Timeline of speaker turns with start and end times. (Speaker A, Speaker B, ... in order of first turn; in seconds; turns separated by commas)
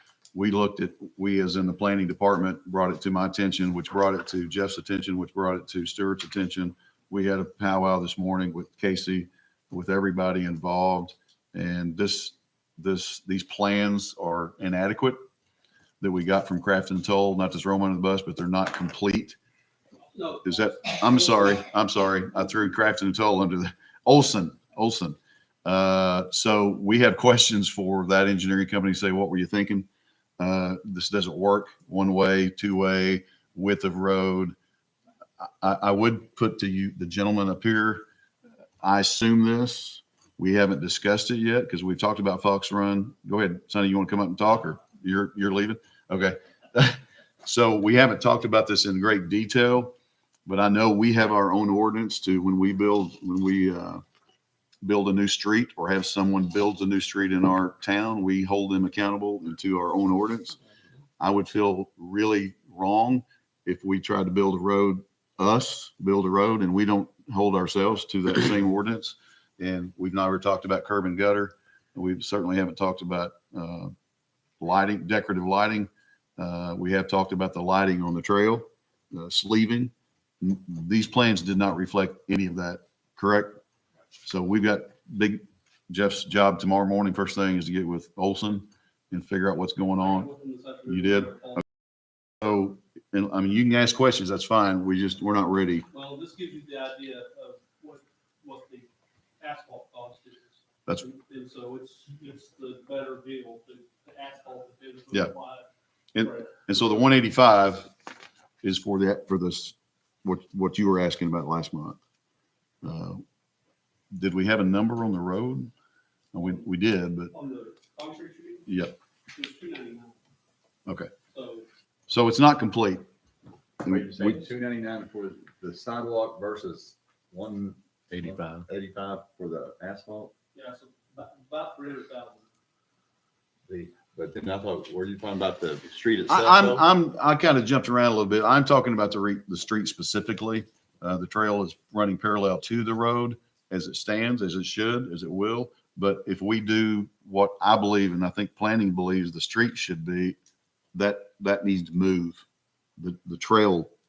Speaker A: 0.3-15.2, Speaker A: 16.0-19.4, Speaker B: 20.1-21.5, Speaker A: 20.4-29.9, Speaker A: 30.4-34.5, Speaker A: 35.4-38.0, Speaker A: 38.8-49.9, Speaker A: 50.5-54.0, Speaker A: 54.8-60.6, Speaker A: 61.2-73.9, Speaker A: 74.6-83.6, Speaker A: 84.2-90.3, Speaker B: 90.0-91.6, Speaker A: 90.9-91.3, Speaker A: 92.4-95.8, Speaker B: 95.9-98.9, Speaker B: 99.4-105.7, Speaker A: 106.1-107.9, Speaker B: 106.2-106.8, Speaker A: 108.6-112.0, Speaker A: 112.8-113.2, Speaker A: 114.1-115.7, Speaker A: 116.3-117.3, Speaker B: 117.3-118.7, Speaker A: 118.7-119.0, Speaker B: 119.3-120.1, Speaker B: 121.3-121.7, Speaker A: 122.1-123.0, Speaker C: 123.8-130.3, Speaker A: 123.8-124.4, Speaker B: 130.5-132.4, Speaker C: 133.7-136.9, Speaker A: 136.3-150.3, Speaker A: 150.9-152.4, Speaker A: 153.0-153.9